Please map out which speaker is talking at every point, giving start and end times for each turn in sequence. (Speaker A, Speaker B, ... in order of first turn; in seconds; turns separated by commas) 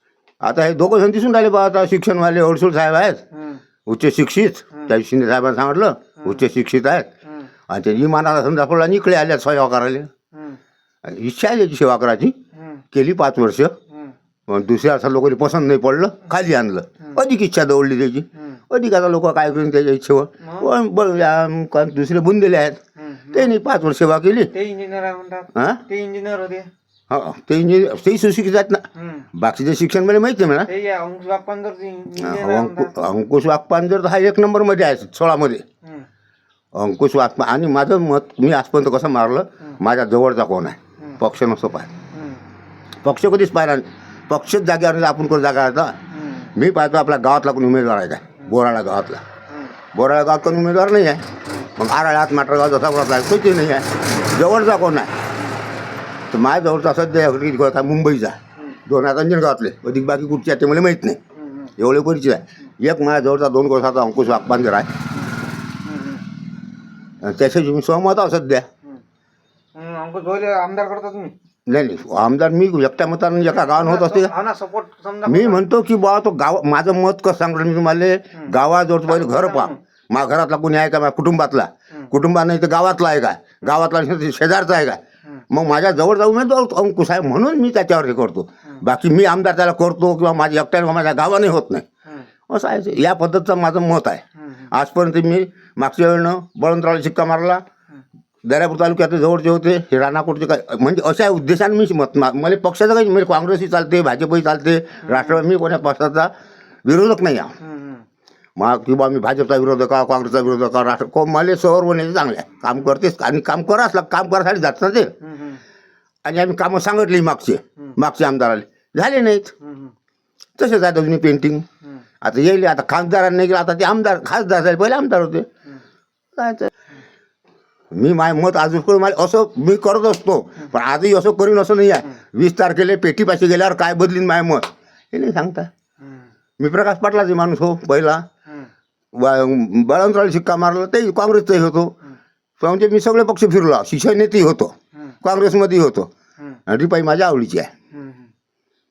Speaker A: 0.4-3.2, Speaker B: 3.3-3.6, Speaker A: 3.9-7.1, Speaker A: 7.7-10.1, Speaker B: 10.3-10.6, Speaker A: 11.1-12.4, Speaker B: 12.6-12.8, Speaker A: 12.9-13.8, Speaker A: 14.5-22.8, Speaker B: 20.4-20.7, Speaker B: 23.0-23.5, Speaker A: 23.3-24.5, Speaker B: 24.5-26.7, Speaker A: 25.6-25.8, Speaker A: 27.1-30.7, Speaker B: 29.0-29.3, Speaker B: 30.7-32.9, Speaker A: 32.2-35.6, Speaker A: 36.7-41.9, Speaker B: 42.1-42.4, Speaker A: 43.0-46.0, Speaker B: 46.1-46.5, Speaker A: 46.6-49.2, Speaker A: 49.9-51.2, Speaker A: 51.8-55.1, Speaker A: 56.3-61.2, Speaker B: 61.4-61.7, Speaker A: 61.8-64.9, Speaker B: 65.8-66.2, Speaker A: 67.2-68.7, Speaker B: 69.8-71.3, Speaker A: 71.7-74.3, Speaker B: 73.5-75.6, Speaker A: 75.3-85.0, Speaker B: 79.1-79.8, Speaker A: 85.5-91.8, Speaker A: 92.5-97.6, Speaker A: 98.5-106.3, Speaker B: 105.1-105.4, Speaker A: 106.9-107.5, Speaker B: 107.6-108.0, Speaker A: 108.6-115.1, Speaker B: 115.2-115.6, Speaker A: 116.2-119.5, Speaker B: 119.6-119.9, Speaker A: 120.6-121.7, Speaker A: 122.2-125.5, Speaker A: 126.4-126.7, Speaker A: 127.9-135.7, Speaker B: 136.0-136.3, Speaker A: 136.6-138.3, Speaker A: 139.2-142.0, Speaker A: 142.6-146.1, Speaker A: 146.7-147.7, Speaker B: 147.9-148.3